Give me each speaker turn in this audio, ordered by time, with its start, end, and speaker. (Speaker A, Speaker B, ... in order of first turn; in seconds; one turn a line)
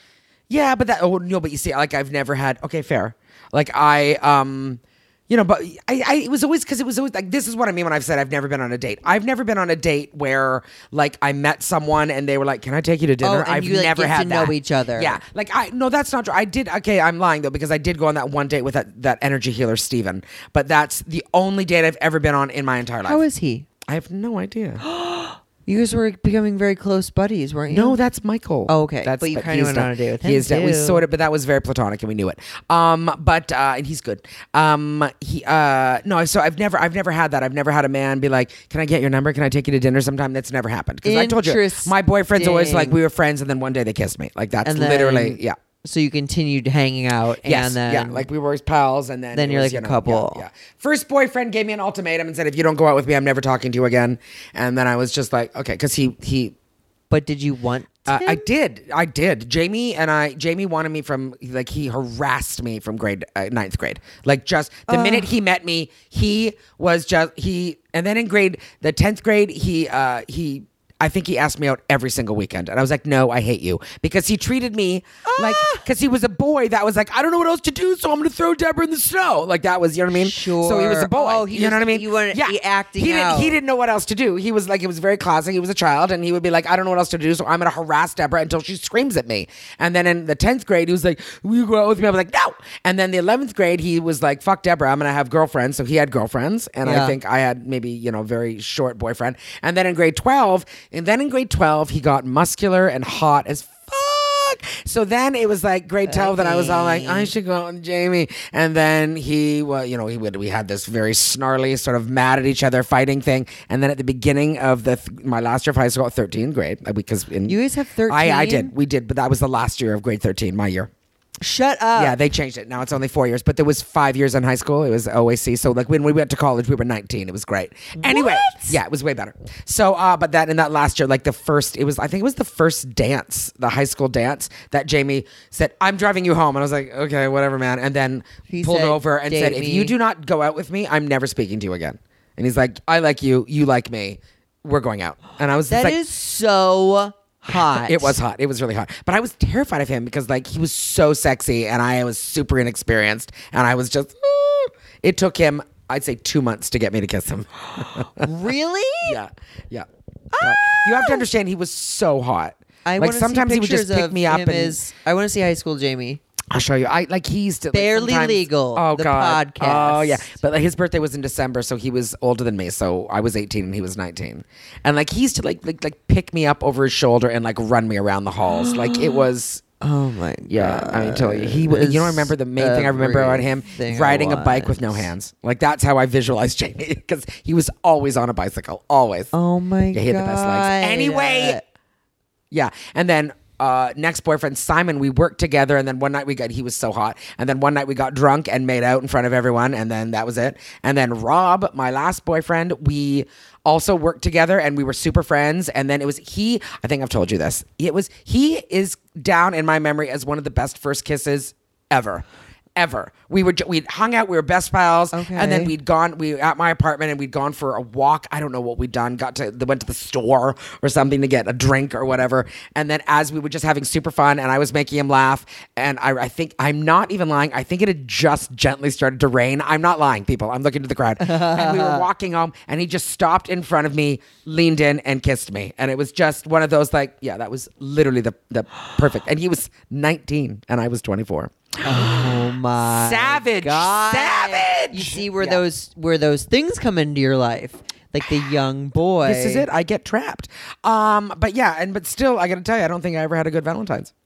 Speaker A: 0.5-23.2
Speaker B: 13.2-15.2
Speaker B: 23.1-23.7
Speaker A: 23.9-24.8
Speaker B: 24.8-28.0
Speaker A: 27.7-45.6
Speaker B: 28.7-31.0
Speaker B: 41.0-43.0
Speaker B: 44.6-48.3
Speaker A: 47.4-56.5
Speaker B: 49.3-50.4
Speaker B: 57.1-58.5
Speaker A: 58.1-117.6
Speaker B: 64.9-65.3
Speaker B: 75.2-75.9
Speaker B: 80.1-83.6
Speaker B: 96.8-97.2
Speaker B: 106.1-107.3
Speaker B: 117.5-118.7
Speaker A: 118.1-120.9
Speaker B: 121.4-122.2
Speaker A: 122.0-146.0
Speaker B: 128.0-128.8
Speaker B: 138.5-139.9
Speaker B: 145.7-148.2
Speaker A: 147.5-158.3
Speaker B: 157.8-159.2
Speaker A: 159.0-159.9
Speaker B: 160.3-161.2
Speaker A: 160.4-164.8
Speaker B: 162.8-166.2
Speaker A: 166.5-179.6
Speaker B: 167.7-170.4
Speaker B: 178.5-179.2
Speaker B: 179.8-185.1
Speaker A: 180.5-189.3
Speaker B: 189.3-191.6
Speaker A: 189.9-191.6
Speaker A: 192.5-212.2
Speaker A: 212.8-245.6
Speaker B: 215.1-215.7
Speaker B: 231.2-232.1
Speaker B: 241.8-249.7
Speaker A: 249.2-254.1